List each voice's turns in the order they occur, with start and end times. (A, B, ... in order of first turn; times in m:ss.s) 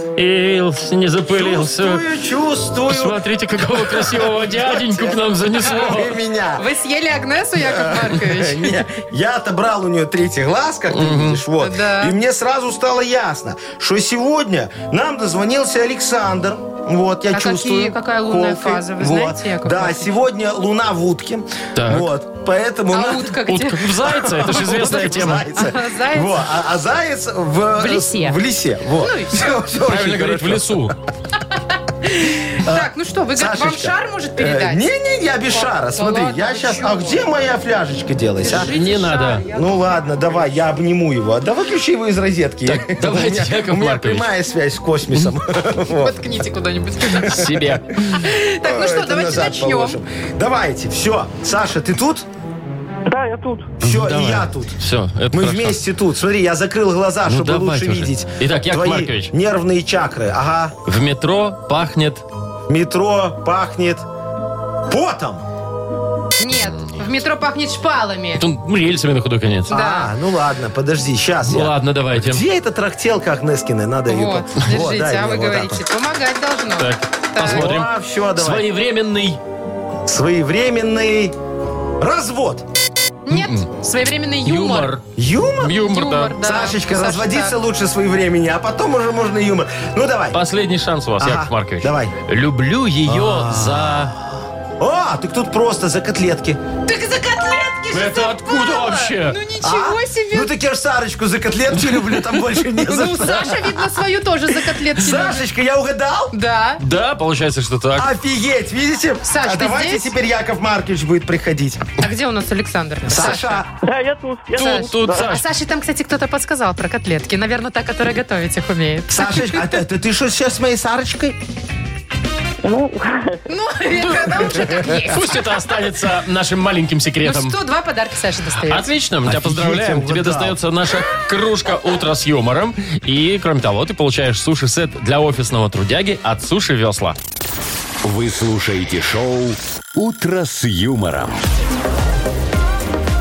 0:00.2-0:02.0 A
0:01.3-0:06.7 B
0:02.9-0:06.2 A
0:06.6-0:08.7 C
0:07.6-0:23.4 B
0:10.9-0:11.4 A
0:11.6-0:12.2 C
0:17.3-0:20.2 C
0:21.8-0:22.1 A
0:22.9-0:26.4 C
0:23.4-0:25.5 A
0:24.0-0:30.9 B
0:27.8-0:29.4 C
0:29.8-0:31.0 A
0:32.0-0:34.9 C
0:32.6-0:38.7 B
0:35.5-0:37.2 C
0:38.4-0:40.0 C
0:38.6-0:39.4 A
0:39.5-0:46.2 B
0:42.7-0:44.3 A
0:45.9-0:47.5 C
0:47.2-0:48.0 A
0:47.3-0:52.3 B
0:48.0-0:50.0 C
0:53.1-0:53.7 D
0:53.8-0:54.8 B
0:53.8-0:55.8 A
0:55.3-1:00.8 B
0:57.3-0:59.3 A
1:00.9-1:02.2 A
1:02.7-1:04.0 B
1:04.9-1:05.4 B
1:06.4-1:08.4 C
1:06.5-1:07.0 A
1:08.4-1:09.8 A
1:09.7-1:15.8 B
1:09.7-1:10.1 C
1:11.5-1:12.4 A
1:14.1-1:17.8 C
1:16.8-1:19.4 A
1:17.4-1:18.7 B
1:20.1-1:21.4 B
1:22.0-1:22.7 B
1:23.3-1:24.9 C
1:23.3-1:23.7 A
1:24.4-1:25.0 A
1:25.2-1:25.8 B
1:25.6-1:26.4 A
1:25.9-1:27.5 C
1:26.4-1:30.4 B
1:30.3-1:34.2 A
1:31.2-1:32.2 B
1:33.1-1:36.6 B
1:36.9-1:40.5 C
1:37.9-1:39.4 A
1:39.6-1:46.3 B
1:41.8-1:42.4 A
1:42.8-1:45.4 C
1:46.3-1:46.8 C
1:46.8-1:48.1 A
1:48.0-1:51.9 B
1:49.2-1:50.1 C
1:52.0-1:53.6 C
1:53.0-1:53.7 B
1:53.8-1:55.3 D
1:54.6-1:55.4 A
1:54.6-1:59.8 C
1:59.1-2:01.4 B
2:02.6-2:03.3 D
2:03.5-2:05.4 C
2:04.0-2:07.6 A
2:07.2-2:08.9 C
2:08.7-2:17.2 A
2:09.2-2:10.6 B
2:18.0-2:21.4 E